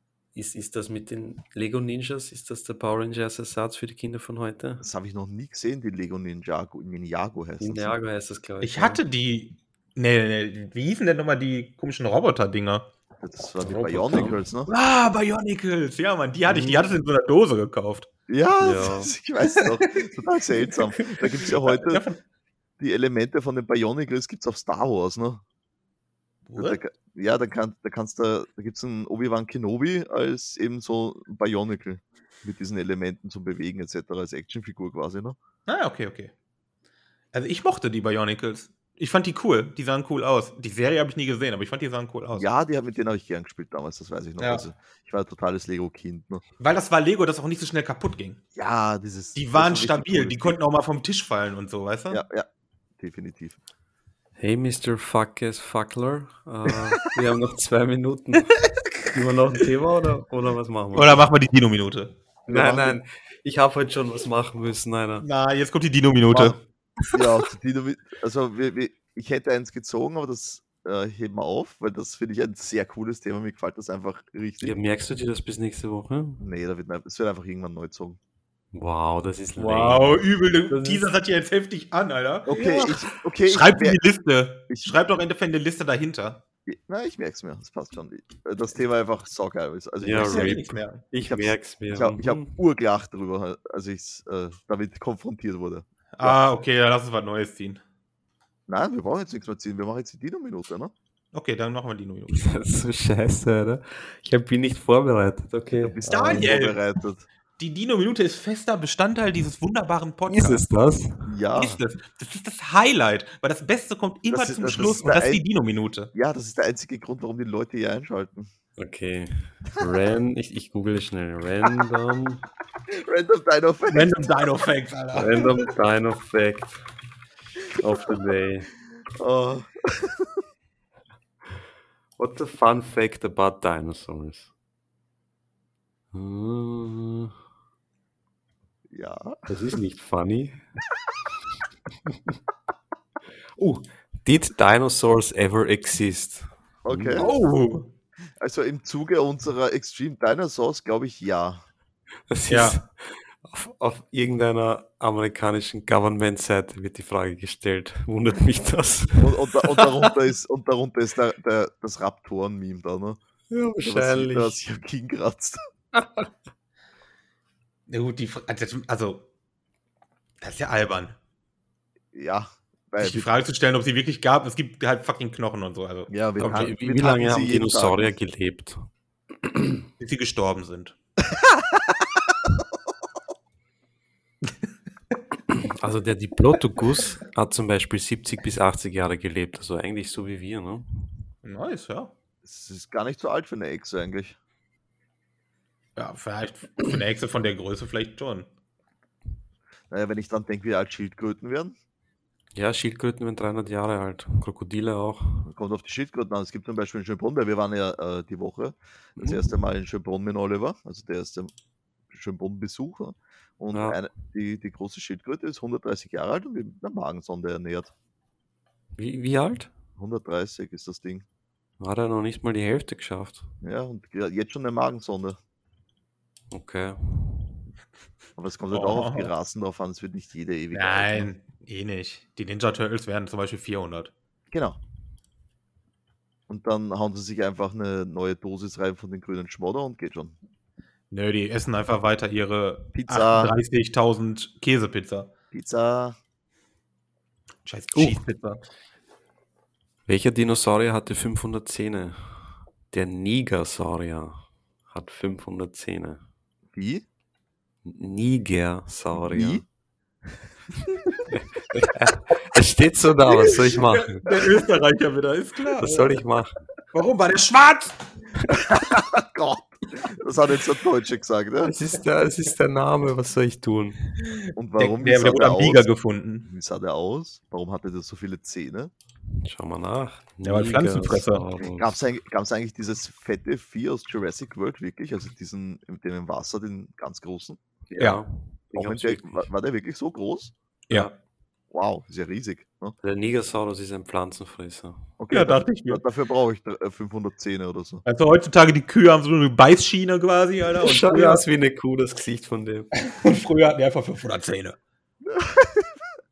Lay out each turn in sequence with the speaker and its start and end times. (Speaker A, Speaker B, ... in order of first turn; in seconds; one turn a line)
Speaker A: 0.3-4.8
Speaker B: 4.8-8.0
Speaker A: 7.6-9.0
Speaker C: 8.6-12.9
Speaker B: 13.2-14.7
Speaker A: 13.6-14.4
Speaker C: 14.7-18.1
Speaker A: 16.5-16.9
Speaker B: 18.3-22.0
Speaker A: 18.6-19.1
Speaker C: 21.7-22.2
Speaker B: 22.8-25.4
Speaker C: 26.5-26.8
Speaker B: 26.6-35.4
Speaker C: 35.7-36.3
Speaker C: 37.3-42.5
Speaker B: 42.4-46.4
Speaker C: 44.4-44.6
Speaker C: 46.6-48.4
Speaker B: 48.5-50.6
Speaker C: 49.3-52.2
Speaker B: 52.1-52.5
Speaker B: 53.0-53.6
Speaker A: 54.4-61.2
Speaker C: 60.9-62.2
Speaker B: 62.5-63.0
Speaker A: 62.5-65.2
Speaker C: 65.2-66.6
Speaker B: 66.3-66.6
Speaker A: 67.1-67.4
Speaker B: 67.1-74.8
Speaker A: 74.6-76.4
Speaker B: 76.4-78.2
Speaker A: 78.7-81.1
Speaker C: 79.6-86.4
Speaker B: 82.5-84.0
Speaker B: 86.7-90.6
Speaker A: 90.0-92.6
Speaker C: 90.2-91.0
Speaker B: 91.2-96.4
Speaker C: 96.2-97.8
Speaker B: 98.7-100.9
Speaker C: 101.3-102.5
Speaker A: 102.3-106.5
Speaker B: 105.8-107.2
Speaker C: 106.0-106.8
Speaker C: 107.6-110.6
Speaker A: 110.3-111.3
Speaker B: 111.2-111.8
Speaker C: 111.5-116.1
Speaker B: 114.3-115.4
Speaker B: 116.1-118.5
Speaker A: 118.8-122.4
Speaker B: 122.9-124.3
Speaker C: 123.9-125.6
Speaker A: 125.1-126.8
Speaker B: 127.7-128.3
Speaker A: 127.8-128.7
Speaker B: 129.2-130.4
Speaker A: 132.2-134.5
Speaker A: 136.1-137.3
Speaker B: 138.9-139.7
Speaker A: 139.5-140.6
Speaker A: 142.1-142.3
Speaker A: 143.6-147.3
Speaker B: 146.8-147.3
Speaker C: 147.2-147.9
Speaker B: 148.4-151.6
Speaker A: 152.3-160.1
Speaker C: 152.5-152.8
Speaker B: 159.2-163.2
Speaker A: 163.5-164.6
Speaker B: 163.8-165.6
Speaker A: 165.9-166.3
Speaker C: 167.9-169.2
Speaker C: 170.4-171.2
Speaker B: 172.1-173.3
Speaker C: 173.0-176.7
Speaker B: 176.1-178.1
Speaker A: 176.4-178.9
Speaker A: 179.4-179.8
Speaker C: 180.0-180.9
Speaker B: 181.3-181.9
Speaker A: 185.5-191.1
Speaker C: 191.4-192.1
Speaker B: 192.4-194.4
Speaker C: 196.0-198.5
Speaker B: 199.9-201.8
Speaker A: 202.5-205.5
Speaker B: 205.4-211.5
Speaker A: 209.2-209.6
Speaker B: 212.1-217.9
Speaker A: 213.7-214.0
Speaker A: 219.0-219.7
Speaker B: 220.0-221.2
Speaker A: 221.8-223.5
Speaker B: 223.6-225.4
Speaker A: 226.5-227.5
Speaker B: 228.4-231.3
Speaker C: 228.7-229.3
Speaker C: 230.7-234.1
Speaker B: 234.5-234.8
Speaker B: 236.5-240.3
Speaker C: 241.1-245.3
Speaker B: 242.9-243.5
Speaker B: 245.5-246.2
Speaker C: 247.6-248.6
Speaker A: 250.1-256.2
Speaker B: 256.7-257.0
Speaker A: 257.8-259.6
Speaker B: 259.1-259.6
Speaker B: 260.9-261.2
Speaker A: 261.3-264.4
Speaker C: 263.3-266.2
Speaker A: 265.8-266.5
Speaker C: 266.9-267.9
Speaker B: 268.5-271.7
Speaker A: 271.6-274.0
Speaker C: 274.2-276.5
Speaker B: 274.6-275.9
Speaker B: 276.4-278.9
Speaker A: 279.4-282.0
Speaker C: 280.4-281.4
Speaker B: 281.6-287.6
Speaker A: 287.9-289.4
Speaker C: 288.0-288.2
Speaker B: 288.7-290.5
Speaker B: 291.7-292.9
Speaker A: 293.0-295.1
Speaker B: 295.2-298.0
Speaker C: 295.3-296.0
Speaker C: 298.1-301.4
Speaker A: 300.7-302.9
Speaker C: 303.0-304.8
Speaker B: 305.2-306.0